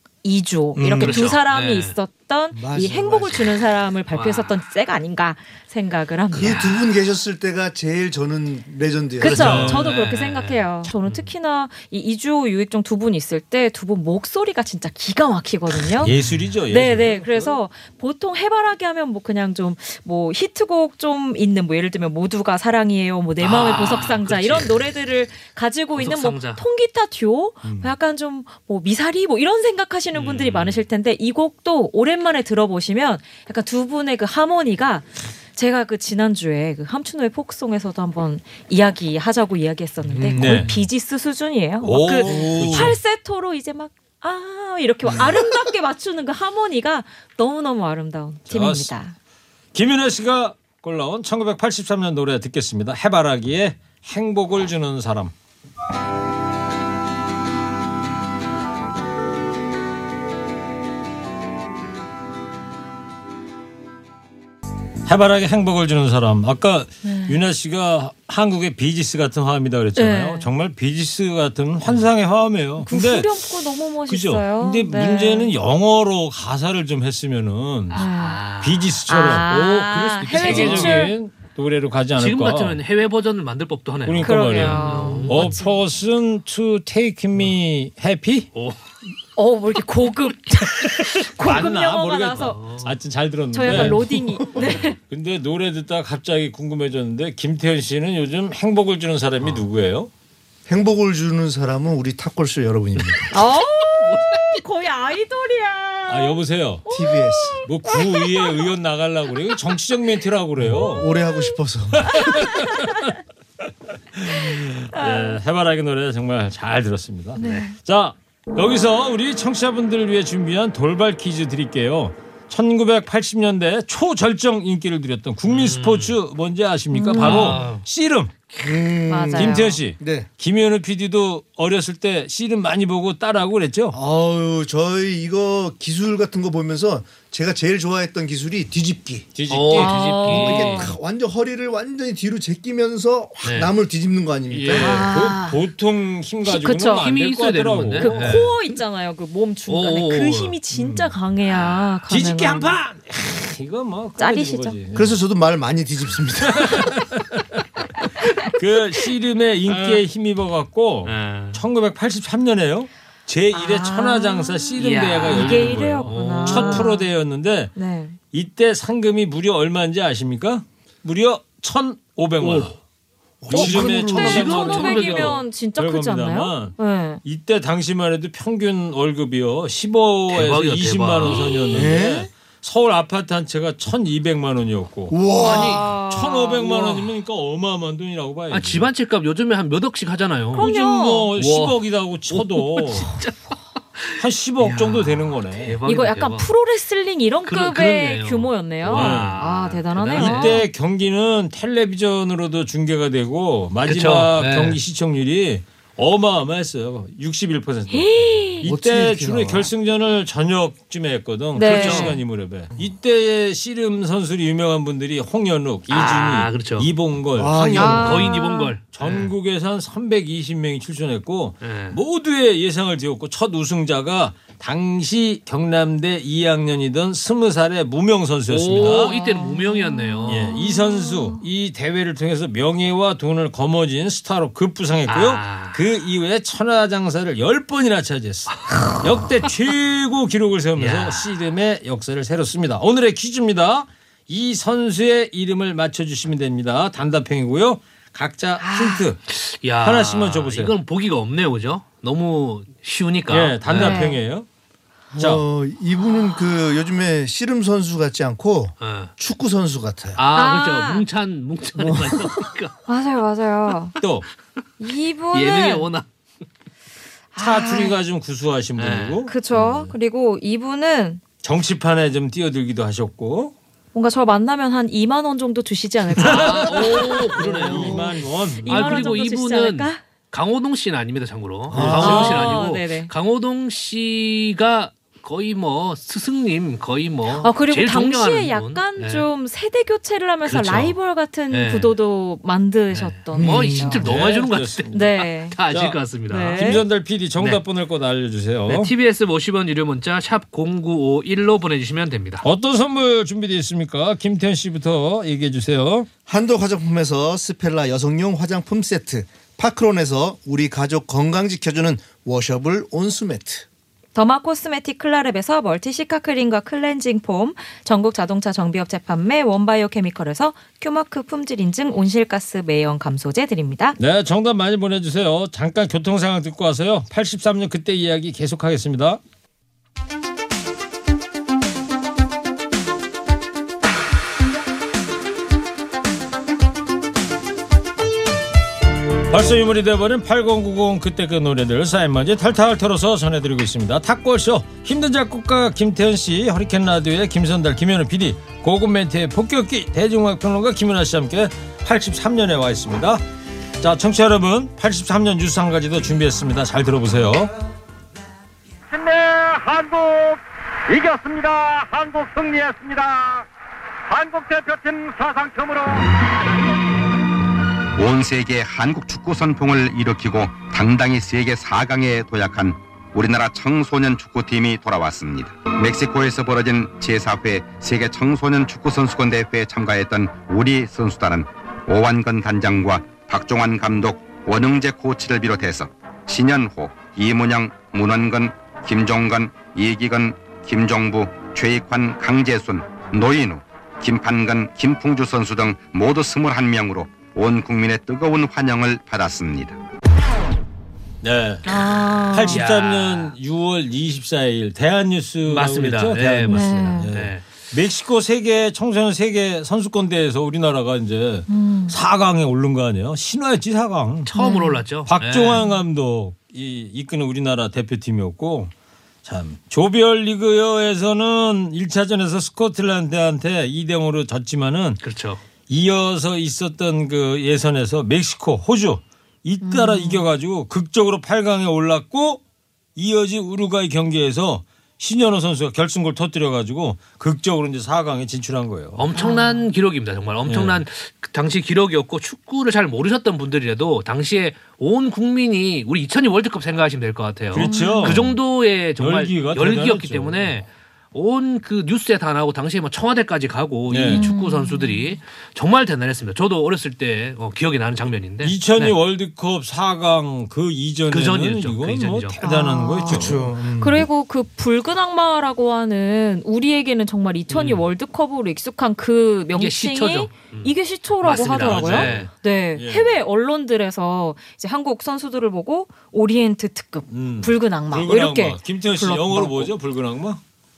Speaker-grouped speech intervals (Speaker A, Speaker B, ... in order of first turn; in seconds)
Speaker A: 0.2-6.6, 9.2-16.1, 16.7-49.1, 67.0-67.4, 70.0-70.5, 72.8-75.5, 77.9-78.4, 79.1-81.1, 84.2-85.8, 89.3-92.6, 93.5-95.0, 103.3-108.7, 111.0-111.5, 112.0-113.2, 114.3-115.4, 117.4-117.7, 126.9-127.6, 129.1-129.8, 139.7-140.9, 144.7-145.6, 146.4-147.1, 148.0-152.8, 154.2-154.8, 163.5-167.1, 167.7-168.2, 173.5-177.2, 181.3-181.8, 185.4-186.6, 190.5-191.3, 195.8-200.7, 207.9-208.7, 211.5-212.2, 217.8-218.7, 228.7-231.4, 248.6-249.0, 253.7-254.2, 260.3-261.0, 262.9-263.9, 264.8-265.9, 267.4-267.9, 269.3-271.2, 273.9-277.9, 278.6-280.0, 282.0-283.1, 287.4-294.0, 294.9-295.6, 296.3-296.8, 314.1-324.0, 401.6-402.6, 406.5-407.1, 411.5-412.0, 414.4-414.8, 429.6-430.2, 439.1-439.6, 447.5-448.2, 454.1-455.2, 462.4-479.7
Speaker B: 0.8-1.3, 9.2-9.9, 15.9-17.5, 27.6-27.9, 40.3-40.8, 41.8-43.0, 48.5-48.9, 49.7-55.3, 65.0-73.5, 74.0-78.0, 78.6-82.8, 84.0-88.5, 90.8-94.0, 95.0-100.1, 106.1-106.8, 107.6-111.1, 112.0-113.1, 114.1-128.3, 129.3-133.9, 139.3-140.2, 144.8-148.4, 150.8-151.1, 152.1-155.2, 156.5-157.6, 158.4-167.7, 168.3-172.7, 173.5-185.2, 186.0-188.8, 190.6-193.1, 194.2-195.8, 198.8-199.4, 200.1-218.3, 218.9-229.1, 230.3-249.2, 249.8-250.7, 253.3-254.4, 255.2-255.4, 264.0-264.2, 267.4-269.9, 271.4-273.5, 276.2-279.0, 281.7-282.5, 294.0-295.1, 295.7-296.0, 296.5-298.9, 302.4-306.1, 324.0-329.2, 339.3-353.2, 353.8-357.5, 401.2-401.7, 402.3-414.3, 415.0-418.7, 419.2-425.0, 425.7-432.4, 432.9-439.1, 440.5-440.8, 447.5-448.4, 449.0-450.5, 453.9-454.3, 458.4-463.7, 471.5-473.1, 477.1-480.4
Speaker C: 1.0-1.9, 4.1-4.6, 6.3-6.9, 9.6-11.3, 23.4-24.9, 25.9-26.6, 30.1-30.8, 77.9-79.0, 79.9-81.1, 82.2-85.6, 92.4-92.9, 93.7-93.9, 94.5-94.9, 104.0-104.6, 117.4-117.7, 125.5-126.2, 127.2-127.8, 139.5-140.9, 143.4-143.7, 144.5-145.1, 147.0-148.5, 149.7-150.6, 151.5-151.9, 159.7-160.0, 161.0-161.6, 164.8-166.9, 173.5-175.4, 180.3-181.6, 185.4-185.9, 186.6-187.1, 188.5-190.7, 191.4-191.8, 192.3-193.3, 194.0-196.5, 197.5-200.6, 203.8-204.8, 211.6-212.2, 215.9-216.9, 217.8-219.3, 221.6-222.0, 228.5-230.5, 235.1-235.8, 240.8-241.3, 249.3-254.0, 258.8-259.1, 260.1-262.7, 265.3-266.1, 268.8-269.2, 276.2-289.3, 290.4-290.9, 291.5-291.9, 292.9-297.6, 298.6-302.4, 402.5-403.4, 405.4-407.4, 414.2-415.6, 425.0-425.4, 438.9-459.0, 461.1-462.4, 467.5-467.9, 469.5-472.3
Speaker D: 2.5-3.5, 6.3-9.7, 40.1-40.7, 42.2-43.0, 100.7-103.3, 106.9-107.6, 110.6-112.2, 128.6-130.3, 133.9-139.3, 140.3-144.9, 154.9-156.9, 172.4-172.7, 173.4-174.6, 181.7-182.3, 185.1-185.9, 208.6-209.7, 217.3-218.2, 255.1-260.2, 261.8-262.3, 281.7-282.4, 293.3-294.1, 306.3-313.6, 463.1-464.0
Speaker E: 358.9-363.5, 364.1-366.1
Speaker F: 368.0-399.8